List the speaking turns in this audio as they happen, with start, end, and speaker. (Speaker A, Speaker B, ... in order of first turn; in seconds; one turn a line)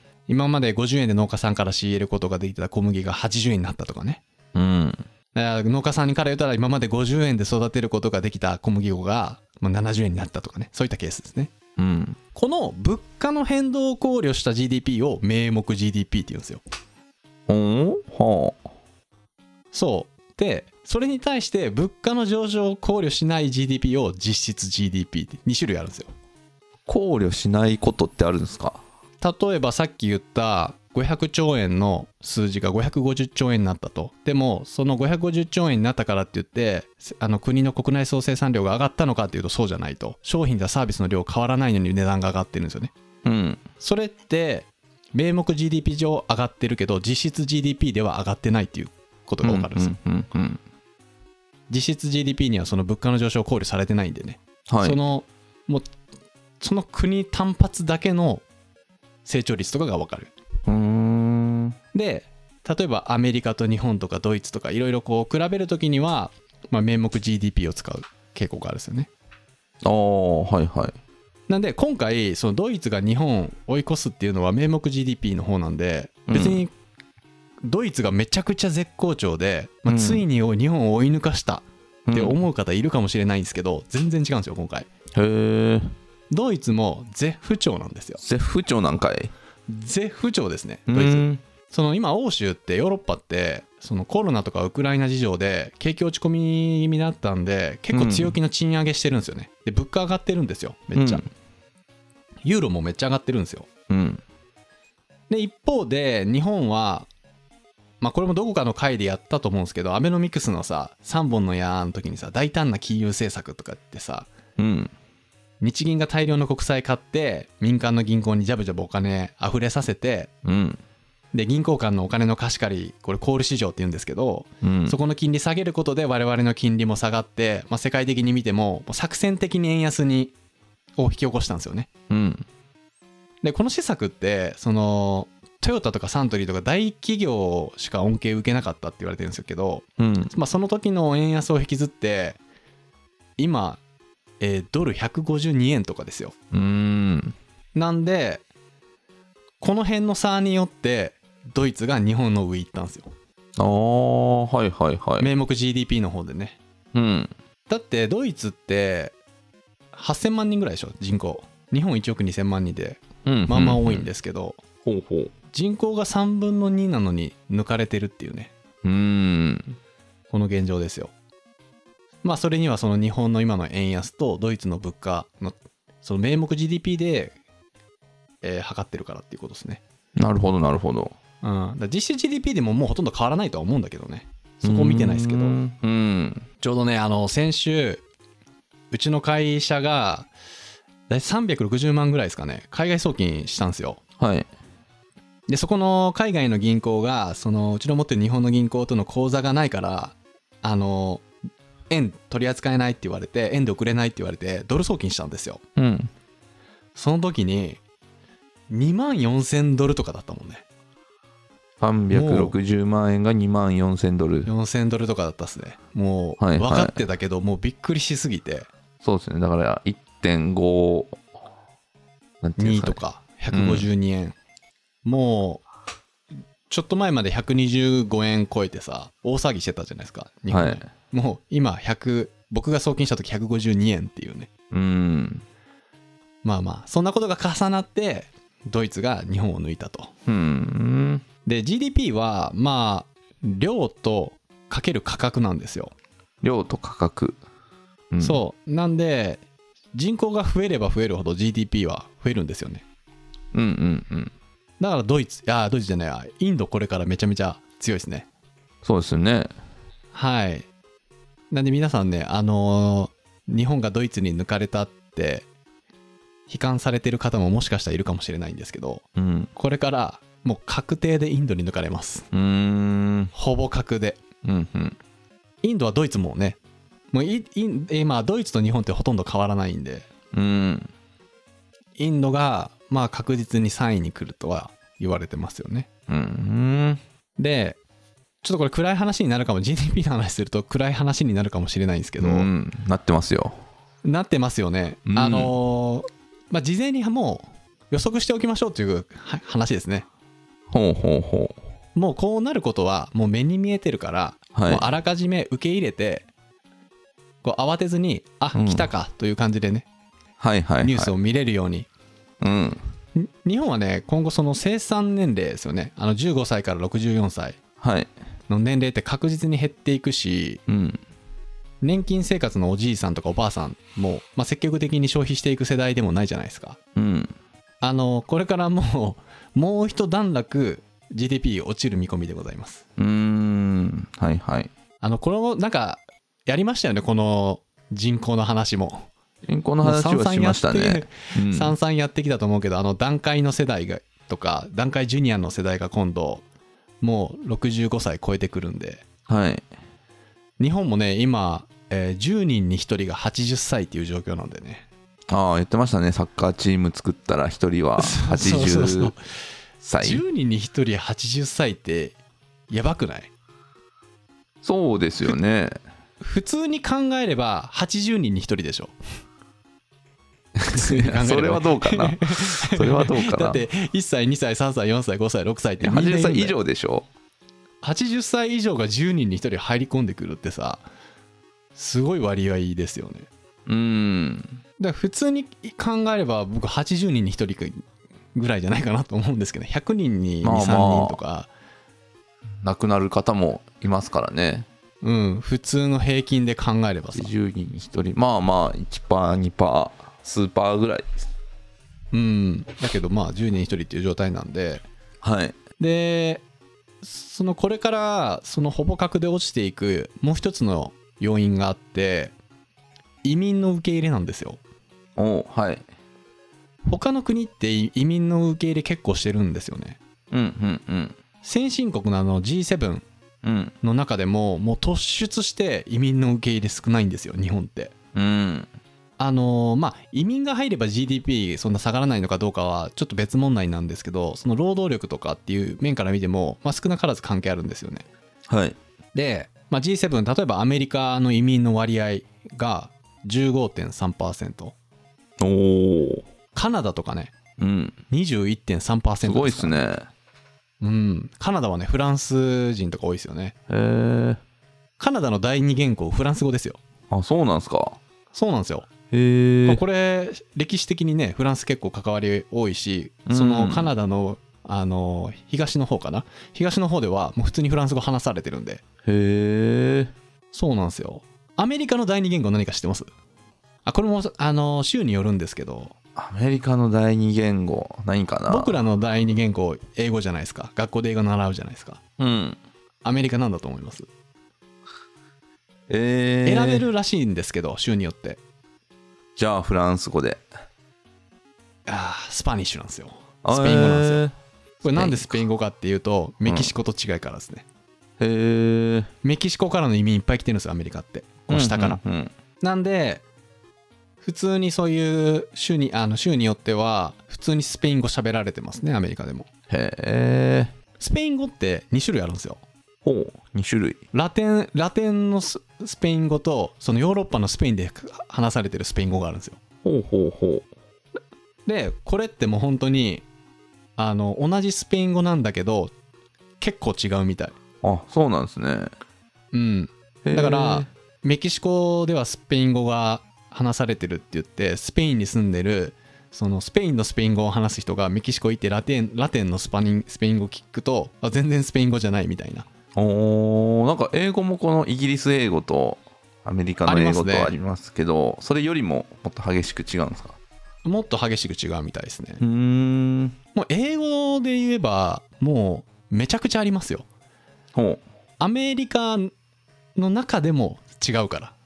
Speaker A: 0.3-4.2
Speaker B: 4.5-5.0
Speaker A: 5.3-11.5
Speaker B: 11.8-12.2
Speaker A: 12.3-16.6
Speaker B: 17.5-18.6
Speaker A: 19.7-26.1
Speaker B: 26.9-28.8
Speaker A: 29.2-42.9
Speaker B: 43.2-43.6
Speaker A: 43.8-49.9
Speaker B: 49.4-50.6
Speaker A: 51.7-55.9
Speaker B: 54.7-55.0
Speaker A: 56.6-58.4
Speaker A: 59.2-60.3
Speaker B: 60.7-61.8
Speaker A: 61.9-69.1
Speaker B: 69.8-71.0
Speaker A: 71.5-76.7
Speaker B: 76.3-76.6
Speaker A: 77.6-84.9
Speaker B: 79.9-80.2
Speaker B: 82.1-82.4
Speaker B: 85.2-85.9
Speaker A: 86.3-88.2
Speaker B: 88.2-89.3
Speaker A: 89.7-101.3
Speaker B: 90.9-91.4
Speaker B: 97.9-98.3
Speaker B: 101.0-101.3
Speaker A: 102.4-103.7
Speaker B: 103.9-104.2
Speaker A: 105.3-107.1
Speaker A: 108.0-114.3
Speaker B: 114.6-114.9
Speaker A: 115.6-120.3
Speaker B: 120.5-120.8
Speaker A: 121.3-130.3
Speaker B: 124.6-125.0
Speaker A: 131.0-131.9
Speaker B: 132.1-132.5
Speaker A: 133.4-142.4
Speaker B: 140.0-140.3
Speaker A: 143.4-143.8
Speaker A: 144.4-146.3
Speaker B: 146.5-147.3
Speaker A: 147.8-148.4
Speaker A: 149.6-153.1
Speaker B: 153.6-155.3
Speaker A: 155.2-156.6
Speaker B: 156.9-157.3
Speaker A: 157.7-159.2
Speaker A: 159.9-164.6
Speaker B: 163.2-164.1
Speaker B: 164.8-165.3
Speaker A: 165.5-168.5
Speaker B: 168.8-169.8
Speaker A: 170.3-171.1
Speaker A: 172.2-177.4
Speaker A: 178.4-179.8
Speaker B: 180.2-181.2
Speaker A: 181.4-185.6
Speaker B: 184.6-186.5
Speaker A: 186.6-188.0
Speaker A: 188.9-190.3
Speaker A: 191.1-194.0
Speaker B: 194.2-194.5
Speaker A: 195.5-201.2
Speaker A: 201.9-205.6
Speaker B: 205.8-206.1
Speaker A: 206.9-207.8
Speaker A: 208.7-210.6
Speaker B: 211.8-214.5
Speaker A: 212.1-212.6
Speaker A: 214.4-218.7
Speaker B: 216.4-217.0
Speaker B: 219.0-221.2
Speaker B: 222.4-223.0
Speaker A: 222.6-224.4
Speaker B: 223.5-223.9
Speaker A: 225.1-225.6
Speaker A: 226.7-234.5
Speaker B: 230.5-230.8
Speaker B: 234.7-235.4
Speaker A: 236.4-240.1
Speaker B: 240.3-241.2
Speaker A: 241.4-245.9
Speaker B: 246.4-247.4
Speaker B: 248.1-248.4
Speaker A: 248.2-249.4
Speaker A: 249.9-252.8
Speaker B: 253.5-254.3
Speaker A: 254.8-258.3
Speaker B: 258.8-259.5
Speaker A: 260.1-260.7
Speaker A: 261.5-265.5
Speaker A: 266.5-269.0
Speaker B: 269.2-269.5
Speaker A: 269.6-272.3
Speaker B: 272.3-273.3
Speaker A: 273.3-274.2
Speaker B: 274.4-275.0
Speaker A: 275.6-276.6
Speaker A: 277.1-280.1
Speaker B: 280.3-280.9
Speaker A: 282.0-285.9
Speaker B: 286.1-287.0
Speaker A: 287.4-287.8
Speaker A: 288.4-292.5
Speaker B: 292.2-293.6
Speaker A: 294.0-300.1
Speaker B: 295.1-295.6
Speaker B: 300.7-301.6
Speaker A: 301.9-306.3
Speaker B: 304.6-304.9
Speaker A: 307.4-309.9
Speaker B: 308.6-308.9
Speaker B: 310.4-311.1
Speaker A: 310.8-311.9
Speaker B: 312.4-312.8
Speaker A: 313.2-317.6
Speaker B: 317.8-318.1
Speaker A: 318.5-320.6
Speaker B: 320.7-321.0
Speaker A: 321.8-326.8
Speaker B: 326.9-327.3
Speaker A: 327.8-332.8
Speaker B: 333.0-334.7
Speaker A: 335.0-339.1
Speaker B: 339.4-341.8
Speaker A: 339.8-346.4
Speaker A: 347.0-349.1
Speaker B: 349.3-349.6
Speaker A: 350.6-354.9
Speaker B: 355.3-359.1
Speaker A: 358.0-359.2
Speaker B: 359.8-360.2
Speaker A: 360.0-362.2
Speaker A: 362.7-363.3
Speaker B: 364.6-365.8
Speaker A: 366.2-368.9
Speaker B: 370.6-373.6
Speaker A: 370.7-376.6
Speaker B: 375.8-377.1
Speaker A: 377.8-380.8
Speaker A: 381.8-383.3
Speaker B: 383.7-384.6
Speaker A: 384.8-391.5
Speaker B: 390.4-391.2
Speaker B: 392.6-394.7
Speaker A: 395.0-397.3
Speaker B: 397.1-401.1
Speaker A: 402.1-404.8
Speaker B: 405.2-405.6
Speaker A: 405.8-406.4
Speaker A: 407.0-412.4
Speaker A: 413.2-414.6
Speaker B: 415.2-415.9
Speaker A: 416.9-420.0
Speaker B: 420.3-421.2
Speaker A: 421.4-423.1
Speaker B: 423.4-423.7
Speaker A: 423.8-427.9
Speaker B: 428.1-428.7
Speaker A: 429.2-438.1
Speaker B: 438.5-438.8
Speaker A: 439.1-444.8
Speaker B: 445.4-446.3
Speaker A: 446.5-447.3
Speaker B: 447.6-448.0
Speaker A: 448.1-449.8
Speaker B: 449.2-450.1
Speaker A: 450.8-453.6
Speaker B: 453.7-454.4
Speaker A: 455.0-456.8
Speaker B: 457.1-458.0
Speaker A: 458.3-458.9
Speaker B: 459.1-459.8
Speaker A: 459.7-468.8
Speaker B: 463.3-463.9
Speaker B: 469.0-470.1
Speaker A: 470.5-473.1
Speaker A: 473.9-475.9
Speaker B: 476.2-478.8
Speaker A: 478.5-482.0
Speaker B: 482.2-482.6
Speaker A: 483.0-484.1
Speaker B: 485.9-486.9
Speaker A: 486.4-488.4
Speaker B: 489.4-490.4
Speaker A: 491.9-494.3
Speaker B: 493.4-495.4
Speaker A: 494.8-497.6
Speaker B: 496.5-496.7
Speaker B: 498.2-499.1
Speaker A: 499.2-502.0
Speaker B: 501.5-502.3
Speaker A: 502.6-503.2
Speaker A: 504.2-509.5
Speaker B: 509.7-510.7
Speaker A: 511.0-512.6
Speaker B: 513.0-514.0
Speaker A: 514.1-519.6
Speaker B: 519.8-520.7
Speaker A: 521.7-523.2
Speaker A: 524.0-525.9
Speaker A: 526.6-527.6
Speaker B: 527.8-528.9
Speaker A: 529.5-542.7
Speaker B: 530.2-530.9
Speaker B: 543.0-550.4
Speaker A: 546.9-547.5
Speaker A: 550.9-552.4
Speaker B: 552.4-553.4
Speaker A: 553.5-557.1
Speaker B: 557.7-558.0
Speaker A: 558.4-559.3
Speaker A: 560.0-561.5